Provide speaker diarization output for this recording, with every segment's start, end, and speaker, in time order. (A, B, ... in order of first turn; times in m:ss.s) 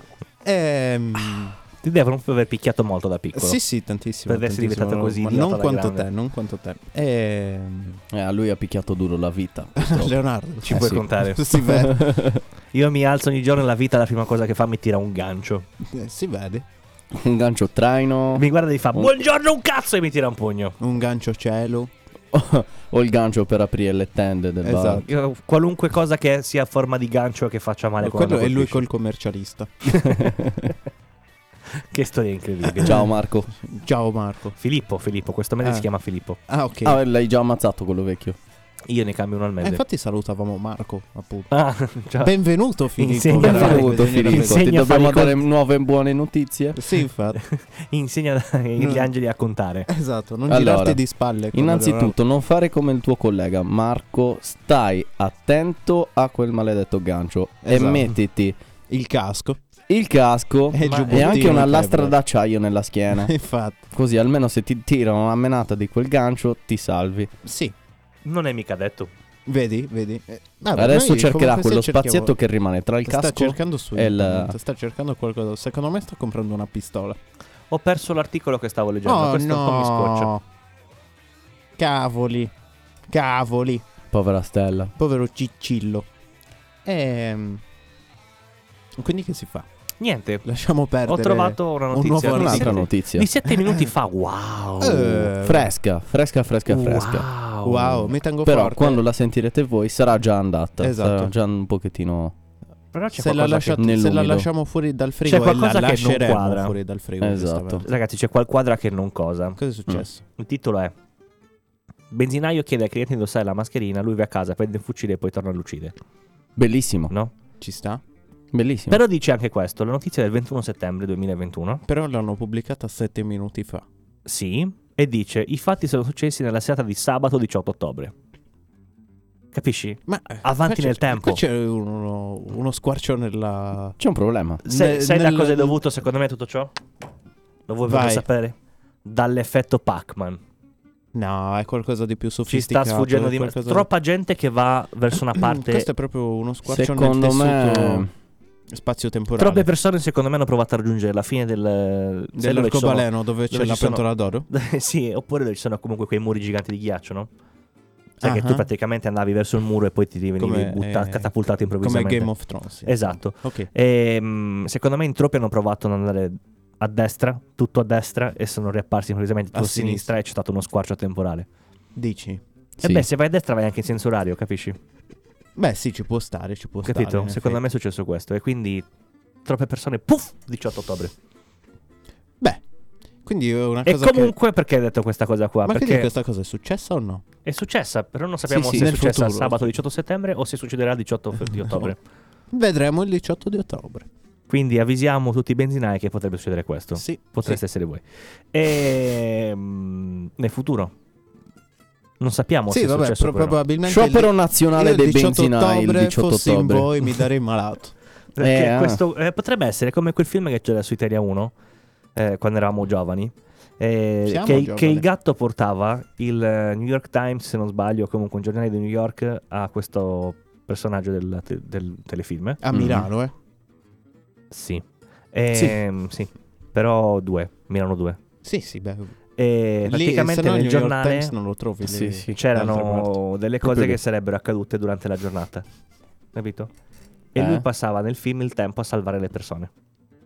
0:00.4-0:01.6 A
0:01.8-0:03.6 B
0:03.3-0:08.0 A
0:04.3-0:06.1 B
0:08.1-0:10.2 C
0:09.8-0:12.2 A
0:10.6-0:11.8 B
0:11.9-0:12.4 C
0:12.7-0:15.7 B
0:15.9-0:16.6 A
0:17.1-0:19.1 C
0:18.3-0:20.8 B
0:20.8-0:21.9 A
0:22.3-0:25.0 C
0:24.6-0:25.0 A
0:25.1-0:28.8 B
0:28.0-0:30.0 A
0:30.1-0:30.7 C
0:31.7-0:33.0 B
0:32.7-0:33.1 A
0:32.8-0:33.5 C
0:33.6-0:34.6 A
0:34.6-0:36.4 B
0:36.5-0:37.0 A
0:36.8-0:38.4 C
0:38.9-0:39.8 B
0:39.6-0:41.5 A
0:41.5-0:42.4 B
0:42.2-0:44.6 A
0:43.0-0:45.4 B
0:43.4-0:46.8 C
0:46.7-0:47.4 A
0:47.4-0:49.9 B
0:48.8-0:49.1 A
0:49.9-0:52.1 A
0:50.5-0:51.0 C
0:51.5-0:58.6 C
0:57.6-0:58.1 A
0:58.9-0:59.6 A
0:59.9-1:03.3 C
1:00.7-1:02.2 A
1:00.8-1:01.6 B
1:03.2-1:03.8 A
1:03.9-1:07.3 C
1:07.4-1:07.7 A
1:08.2-1:09.1 B
1:09.4-1:12.3 A
1:10.7-1:14.6 C
1:13.0-1:17.2 A
1:17.7-1:20.3 B
1:19.0-1:20.4 A
1:21.8-1:22.5 A
1:23.1-1:23.8 A
1:24.1-1:24.9 C
1:25.0-1:26.0 A
1:26.8-1:27.6 A
1:29.0-1:29.7 A
1:30.0-1:30.4 B
1:30.4-1:32.8 A
1:31.0-1:35.3 B
1:32.3-1:33.3 C
1:33.6-1:33.9 A
1:34.8-1:35.7 A
1:35.3-1:37.3 C
1:36.7-1:38.2 B
1:37.6-1:39.0 A
1:38.4-1:42.3 C
1:40.8-1:41.3 A
1:42.9-1:43.9 B
1:43.1-1:47.8 A
1:43.8-1:44.5 C
1:45.2-1:46.8 B
1:47.2-1:47.9 C
1:47.8-1:49.6 B
1:49.6-1:50.2 A
1:50.4-1:50.9 B
1:52.1-1:55.9 B
1:56.6-1:57.1 C
1:57.6-1:58.0 A
1:58.5-1:59.0 C
1:58.9-2:01.8 B
2:01.9-2:03.9 A
2:04.2-2:08.1 B
2:09.5-2:11.4 B
2:10.1-2:14.0 A
2:14.0-2:14.6 C
2:14.6-2:15.8 A
2:14.6-2:16.7 B
2:17.7-2:20.4 B
2:17.9-2:18.2 A
2:21.1-2:23.9 A
2:22.5-2:25.9 B
2:25.3-2:28.0 A
2:26.6-2:28.1 C
2:28.7-2:29.7 A
2:29.4-2:37.3 B
2:32.4-2:34.4 A
2:38.2-2:38.7 A
2:38.2-2:42.3 B
2:40.4-2:41.3 A
2:41.8-2:43.7 A
2:42.9-2:51.5 B
2:49.5-2:50.1 A
2:52.0-2:52.4 A
2:52.8-2:53.1 C
2:52.8-2:54.8 B
2:55.6-2:57.6 A
2:56.8-2:58.8 B
2:59.4-3:01.1 B
3:03.2-3:04.3 A
3:03.9-3:06.1 B
3:05.6-3:07.2 A
3:07.4-3:12.0 B
3:08.5-3:09.7 A
3:12.5-3:14.1 A
3:14.5-3:20.9 B
3:17.0-3:17.6 A
3:22.2-3:23.6 B
3:22.7-3:27.9 A
3:23.8-3:27.1 C
3:28.4-3:29.0 C
3:28.4-3:31.5 B
3:32.1-3:42.6 B
3:34.2-3:35.0 A
3:42.6-3:43.3 A
3:42.7-3:43.1 C
3:44.5-3:48.2 B
3:48.4-3:49.1 A
3:49.4-3:51.3 B
3:49.8-3:53.1 A
3:51.8-3:52.3 C
3:52.3-3:55.6 B
3:53.6-3:54.0 C
3:56.3-3:56.7 B
3:57.3-3:59.7 B
3:57.4-3:57.6 C